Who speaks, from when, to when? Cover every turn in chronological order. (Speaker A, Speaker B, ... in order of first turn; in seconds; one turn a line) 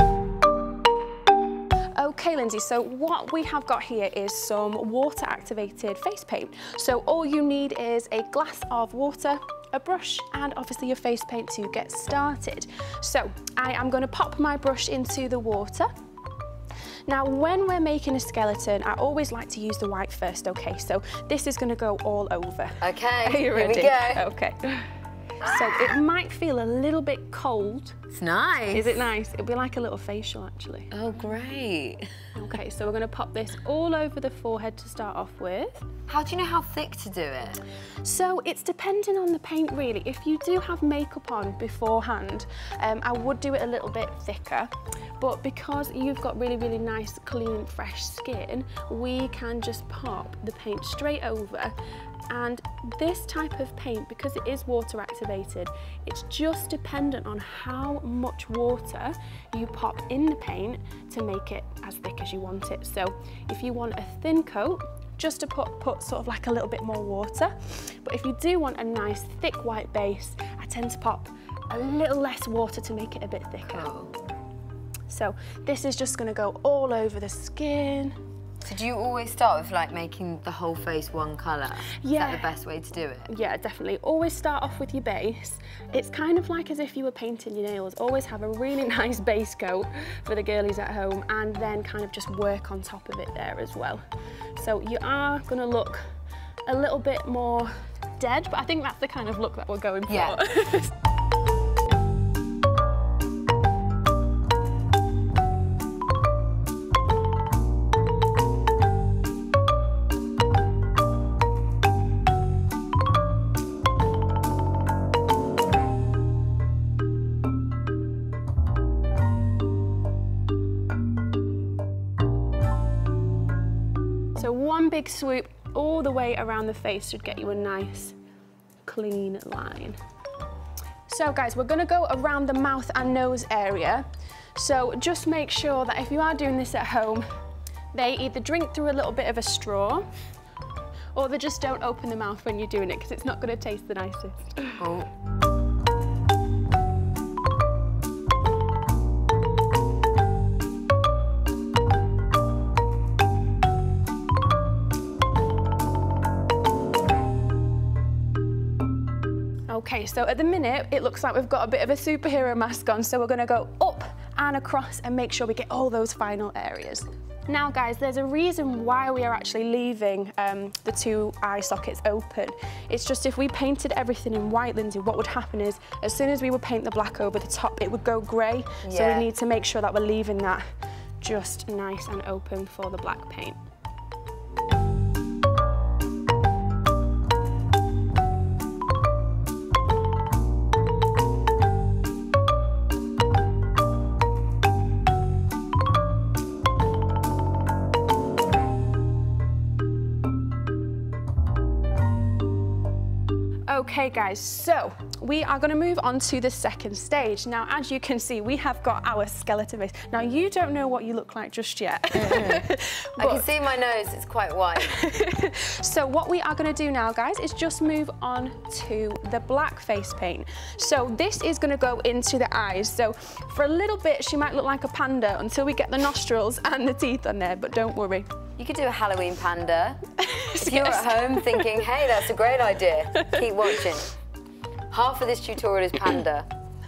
Speaker A: 1.9-15.9
Speaker A: 17.1-24.9
Speaker B: 22.8-24.3
Speaker A: 25.4-28.0
Speaker B: 28.1-29.1
Speaker A: 28.7-30.9
Speaker B: 30.9-32.1
Speaker A: 32.3-35.9
Speaker B: 36.1-37.6
Speaker A: 38.0-51.7
Speaker A: 52.3-73.9
Speaker B: 73.7-74.1
Speaker A: 75.1-78.2
Speaker B: 78.6-83.3
Speaker A: 81.9-82.5
Speaker A: 83.2-94.0
Speaker A: 94.6-96.0
Speaker A: 96.7-100.9
Speaker B: 100.1-100.4
Speaker A: 124.3-128.1
Speaker A: 128.8-130.0
Speaker A: 131.1-137.2
Speaker A: 137.9-140.0
Speaker A: 141.1-144.8
Speaker B: 144.8-145.1
Speaker A: 159.7-180.6
Speaker B: 178.8-179.3
Speaker A: 181.2-183.6
Speaker A: 203.7-213.5
Speaker B: 212.1-212.7
Speaker B: 213.2-214.9
Speaker A: 214.8-228.3
Speaker B: 228.6-230.0
Speaker A: 230.2-231.9
Speaker B: 230.6-234.1
Speaker A: 233.1-233.8
Speaker B: 234.9-236.5